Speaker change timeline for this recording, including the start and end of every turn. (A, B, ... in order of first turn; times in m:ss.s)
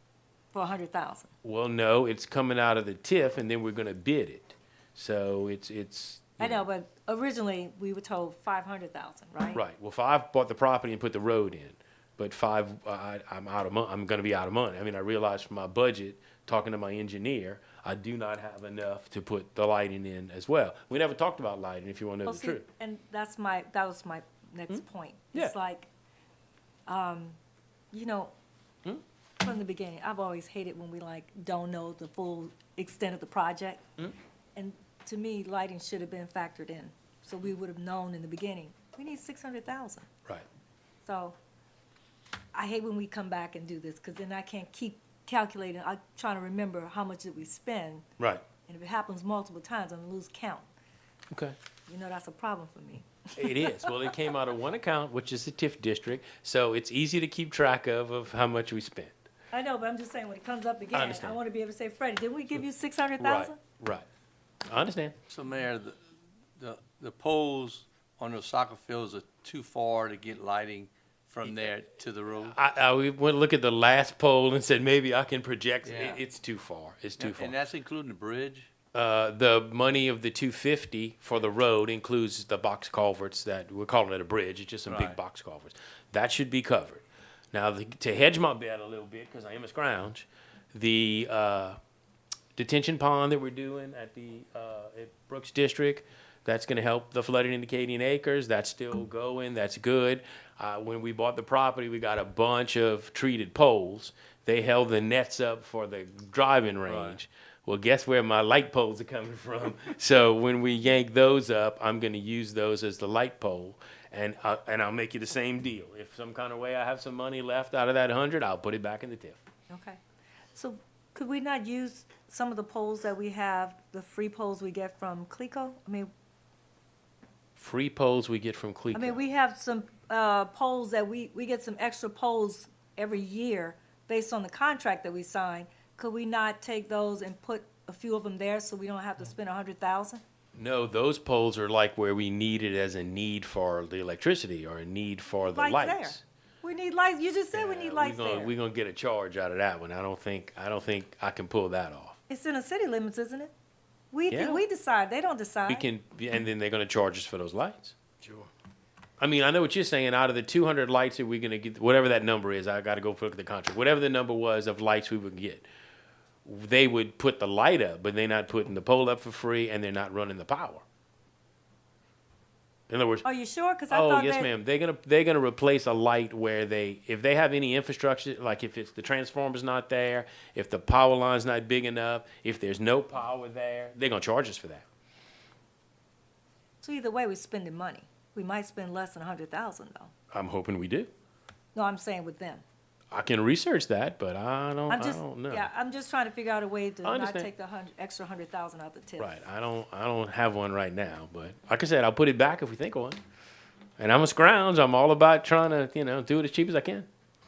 0:00.5-0:01.3 A
0:01.4-0:06.6 B
0:06.4-0:09.6 A
0:09.5-0:22.6 B
0:22.2-0:25.9 A
0:26.9-0:27.4 A
0:27.9-0:28.3 A
0:29.4-0:33.8 A
0:34.6-0:40.1 A
0:41.0-0:41.4 A
0:42.5-0:48.0 A
0:48.7-0:50.7 A
0:51.3-0:51.6 B
0:51.9-0:54.1 A
0:53.4-0:59.1 B
0:59.5-1:03.6 A
1:00.9-1:01.4 B
1:03.2-1:04.0 B
1:04.7-1:05.1 B
1:05.3-1:06.0 C
1:06.6-1:12.6 C
1:12.5-1:17.5 B
1:15.8-1:16.2 C
1:17.2-1:18.7 C
1:18.9-1:31.8 B
1:24.8-1:25.2 C
1:32.6-1:59.4 B
1:46.8-1:47.2 C
1:59.7-2:00.0 A
2:00.5-2:06.1 A
2:07.6-2:09.2 B
2:08.9-2:20.2 A
2:20.5-2:26.2 B
2:25.5-2:28.5 A
2:27.5-2:32.2 B
2:32.3-2:33.5 A
2:34.1-2:35.8 A
2:34.3-2:34.6 B
2:35.7-2:38.5 B
2:39.2-2:45.6 B
2:46.4-2:50.8 B
2:52.9-2:53.2 B
2:53.2-2:54.5 A
2:53.9-3:04.8 B
3:06.8-3:10.1 A
3:10.3-3:11.1 B
3:11.7-3:12.6 A
3:13.1-3:15.7 B
3:14.9-3:19.3 A
3:17.0-3:17.5 B
3:19.2-3:23.2 B
3:24.0-3:27.1 B